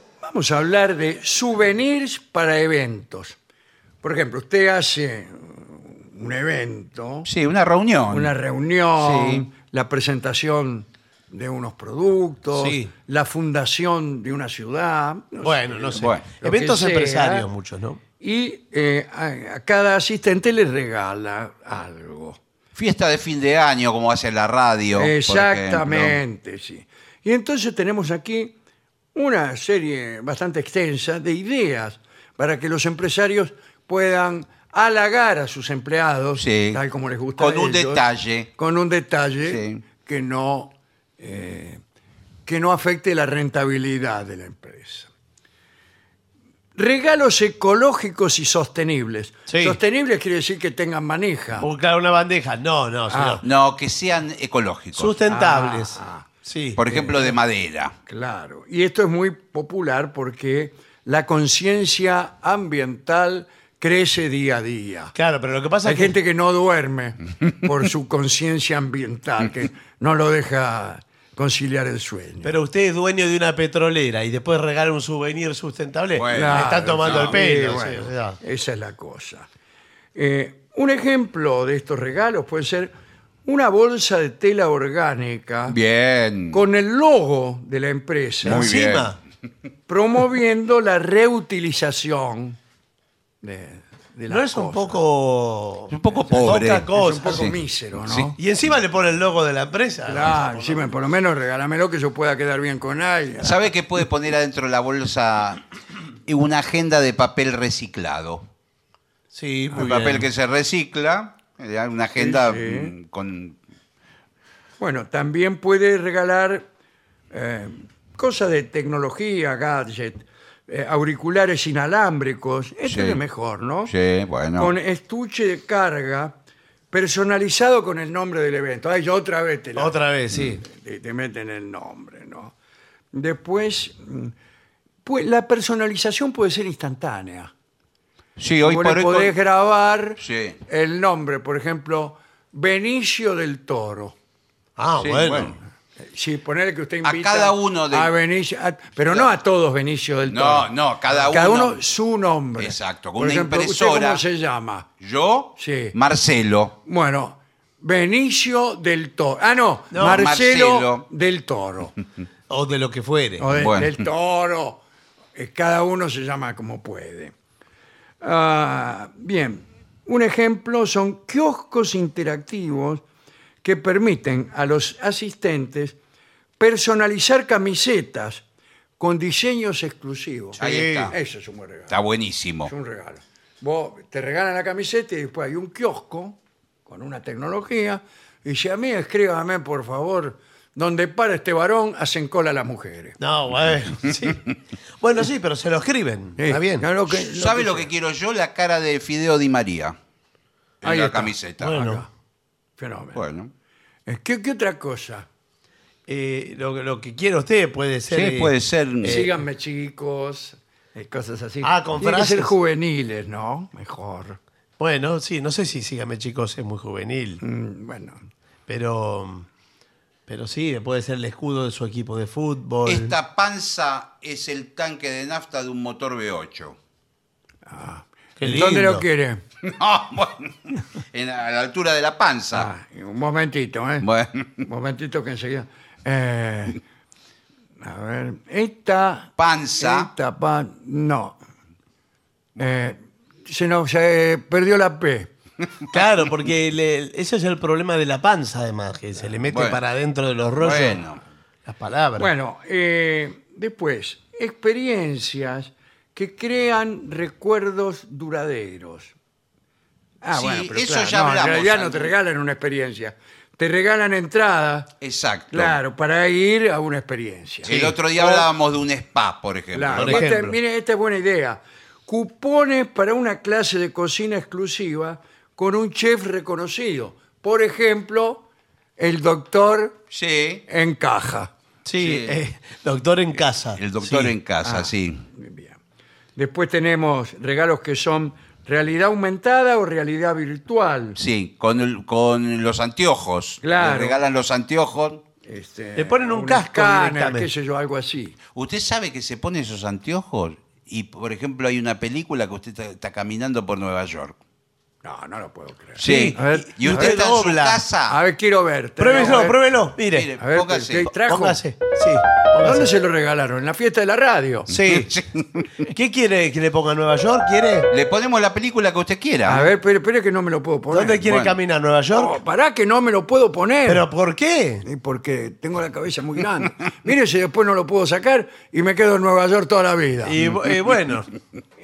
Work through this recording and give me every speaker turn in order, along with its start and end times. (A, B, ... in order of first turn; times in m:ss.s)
0:00.2-0:03.4 A
0:04.0-0:07.3 A
0:07.2-0:08.3 B
0:08.1-0:17.5 A
0:09.0-0:09.4 B
0:12.5-0:12.9 C
0:15.4-0:18.0 C
0:15.9-0:16.2 B
0:18.2-0:22.4 A
0:22.7-0:26.2 B
0:24.9-0:28.5 A
0:29.1-0:41.8 A
0:36.4-0:36.8 B
0:37.4-0:38.5 B
0:39.4-0:39.8 B
0:42.4-0:45.1 A
0:46.8-0:51.7 A
0:49.5-0:49.8 C
0:51.6-0:53.4 C
0:53.1-0:53.4 A
0:53.4-0:55.2 B
0:54.9-0:56.8 C
0:55.2-0:56.2 A
0:56.8-0:57.9 B
0:56.9-0:57.4 A
0:58.1-1:05.1 A
1:05.1-1:06.1 C
1:05.8-1:12.5 A
1:12.4-1:18.4 C
1:16.1-1:17.4 B
1:16.3-1:19.5 A
1:20.1-1:22.9 A
1:23.4-1:25.8 A
1:25.7-1:26.6 B
1:26.5-1:28.7 A
1:28.4-1:29.1 B
1:28.4-1:29.2 C
1:29.9-1:32.6 A
1:33.4-1:35.0 A
1:34.3-1:37.5 C
1:35.9-1:38.3 B
1:36.3-1:38.4 A
1:38.4-1:40.9 C
1:40.0-1:43.7 A
1:43.4-1:45.6 B
1:46.2-1:48.4 B
1:49.3-1:50.3 C
1:49.7-1:53.6 B
1:52.2-1:52.9 A
1:54.8-1:56.7 A
1:57.3-2:03.9 A
2:02.8-2:03.2 B
2:03.8-2:04.7 B
2:04.6-2:06.4 A
2:06.9-2:12.5 A
2:09.8-2:10.6 C
2:13.1-2:14.3 A
2:15.0-2:17.5 A
2:18.4-2:19.3 B
2:18.6-2:24.1 A
2:20.2-2:20.6 B
2:24.8-2:25.6 C
2:25.0-2:25.5 B
2:26.1-2:30.7 A
2:27.0-2:28.1 B
2:29.0-2:29.3 B
2:30.3-2:31.8 B
2:31.2-2:34.9 A
2:32.6-2:34.2 B
2:35.0-2:36.7 B
2:35.6-2:36.0 A
2:36.8-2:42.0 A
2:39.9-2:40.3 C
2:40.0-2:41.0 B
2:42.5-2:43.5 C
2:43.4-2:44.8 A
2:43.5-2:44.0 B
2:45.3-2:47.3 A
2:48.2-2:53.0 A
2:53.6-2:56.0 A
2:56.6-2:58.4 A
2:59.0-3:02.0 A
3:00.6-3:01.1 C
3:00.6-3:01.2 B
3:01.9-3:02.7 B
3:02.7-3:13.2 A
3:13.2-3:14.4 C
3:15.0-3:16.9 C
3:16.4-3:17.9 A
3:17.1-3:19.9 B
3:20.8-3:21.7 B
3:20.8-3:22.1 A
3:21.6-3:22.0 C
3:22.8-3:23.2 A
3:23.1-3:23.5 B
3:24.1-3:25.2 A
3:26.1-3:29.3 C
3:28.1-3:29.3 B
3:29.0-3:34.4 A
3:31.6-3:32.5 C
3:34.8-3:37.4 C
3:37.4-3:38.2 A
3:38.7-3:39.5 C
3:40.3-3:43.1 C
3:42.8-3:46.8 B
3:47.6-3:49.4 A
3:48.4-3:49.0 C
3:49.6-3:52.7 B
3:52.5-3:54.0 A
3:54.0-3:54.6 B
3:54.6-3:56.8 A
3:57.8-4:01.4 A
3:59.4-4:00.1 B
4:02.6-4:05.3 A
4:05.9-4:11.0 C
4:09.5-4:09.8 B
4:10.6-4:11.2 B
4:11.6-4:12.3 C
4:12.2-4:19.1 A
4:20.2-4:24.9 A
4:20.3-4:22.1 B
4:25.0-4:25.8 B
4:25.5-4:28.5 A
4:27.6-4:30.3 B
4:27.6-4:28.0 C
4:29.7-4:38.4 A
4:29.9-4:30.6 C
4:39.0-4:39.9 A
4:40.1-4:40.6 B
4:40.7-4:41.5 A
4:41.8-4:44.3 C
4:42.0-4:42.4 B
4:43.7-4:45.2 B
4:44.6-4:45.8 A
4:46.4-4:51.2 A
4:51.2-4:55.2 B
4:53.6-4:54.2 A
4:55.4-4:58.3 A
4:55.9-4:57.5 C
4:58.5-5:04.4 B
5:05.0-5:07.5 A
5:06.0-5:08.2 B
5:06.0-5:07.8 C
5:08.1-5:09.6 A
5:09.0-5:10.3 C
5:10.1-5:11.1 B
5:10.4-5:11.6 A
5:11.1-5:12.9 C
5:12.6-5:14.7 A
5:14.7-5:15.8 B
5:14.7-5:15.1 C
5:15.9-5:17.9 C
5:17.9-5:19.7 B
5:19.4-5:21.3 A
5:20.9-5:22.4 C
5:21.2-5:21.6 B
5:22.1-5:24.1 A
5:23.8-5:24.8 C
5:24.8-5:30.4 A
5:30.2-5:31.3 C